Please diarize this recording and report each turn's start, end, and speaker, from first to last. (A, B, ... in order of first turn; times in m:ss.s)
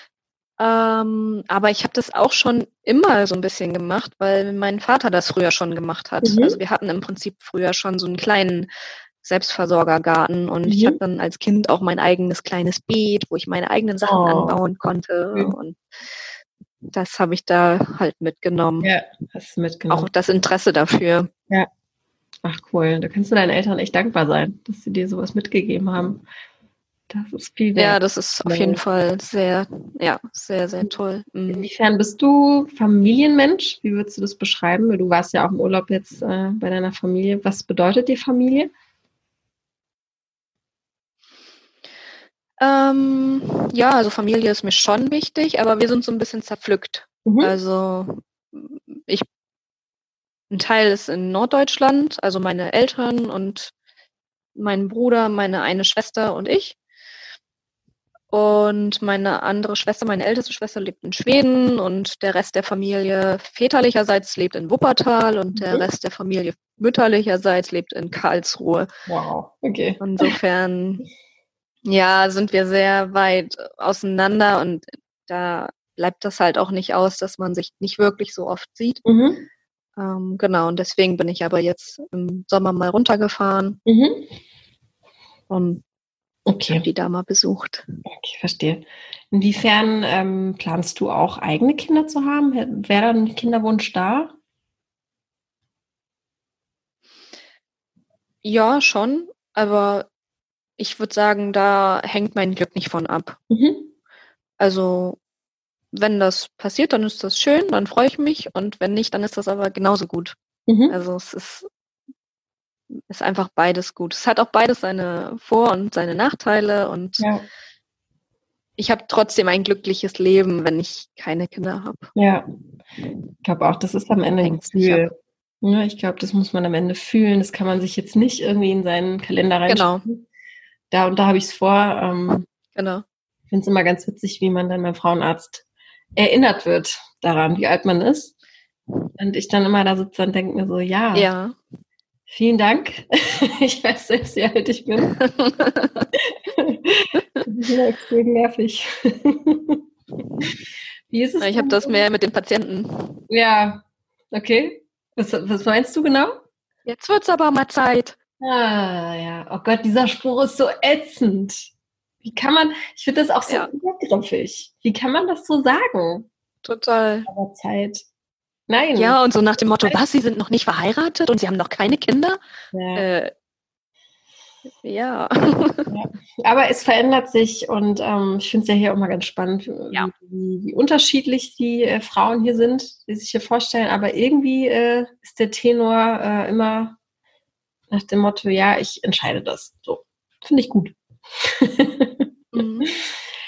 0:00.6-0:08.7 A
0:06.2-0:06.6 B
0:09.2-0:15.8 A
0:10.6-0:11.0 B
0:14.0-0:14.6 B
0:16.9-0:18.9 A
0:18.8-0:20.1 B
0:19.9-0:21.3 A
0:22.4-0:26.2 B
0:27.1-0:28.8 B
0:27.8-0:31.6 A
0:31.5-0:38.7 B
0:42.6-0:49.2 A
0:47.2-0:47.5 B
0:50.5-0:53.7 A
0:54.6-0:56.8 A
0:58.3-1:08.9 A
1:05.6-1:05.9 B
1:09.1-1:10.3 B
1:10.0-1:11.1 A
1:11.8-1:19.0 A
1:19.0-1:19.4 B
1:20.0-1:23.8 A
1:23.8-1:24.3 B
1:25.5-1:25.8 A
1:26.4-1:26.8 B
1:26.7-1:27.9 A
1:28.0-1:34.4 B
1:38.4-1:40.0 A
1:40.8-1:43.4 A
1:43.5-1:43.9 B
1:44.6-1:45.2 A
1:45.9-1:50.4 A
1:50.7-1:51.0 B
1:50.9-1:51.7 A
1:53.1-1:57.3 A
1:58.8-2:02.1 A
2:02.1-2:02.5 B
2:03.4-2:10.2 B
2:04.4-2:05.1 A
2:09.7-2:10.0 A
2:10.9-2:12.4 B
2:12.7-2:13.0 A
2:13.5-2:15.6 B
2:16.2-2:18.3 B
2:19.2-2:21.3 B
2:21.1-2:21.6 A
2:22.3-2:25.1 B
2:25.1-2:26.1 A
2:26.2-2:29.8 B
2:31.1-2:32.0 B
2:31.4-2:33.2 A
2:33.3-2:36.3 B
2:36.8-2:38.2 A
2:38.4-2:41.7 B
2:42.2-2:46.3 B
2:46.6-2:47.3 A
2:47.3-2:48.0 B
2:48.7-2:49.2 B
2:48.9-2:52.4 A
2:52.7-2:53.0 B
2:52.9-2:53.3 A
2:54.8-2:55.9 A
2:55.9-3:07.0 B
3:07.9-3:12.3 B
3:12.5-3:12.9 A
3:12.8-3:13.2 B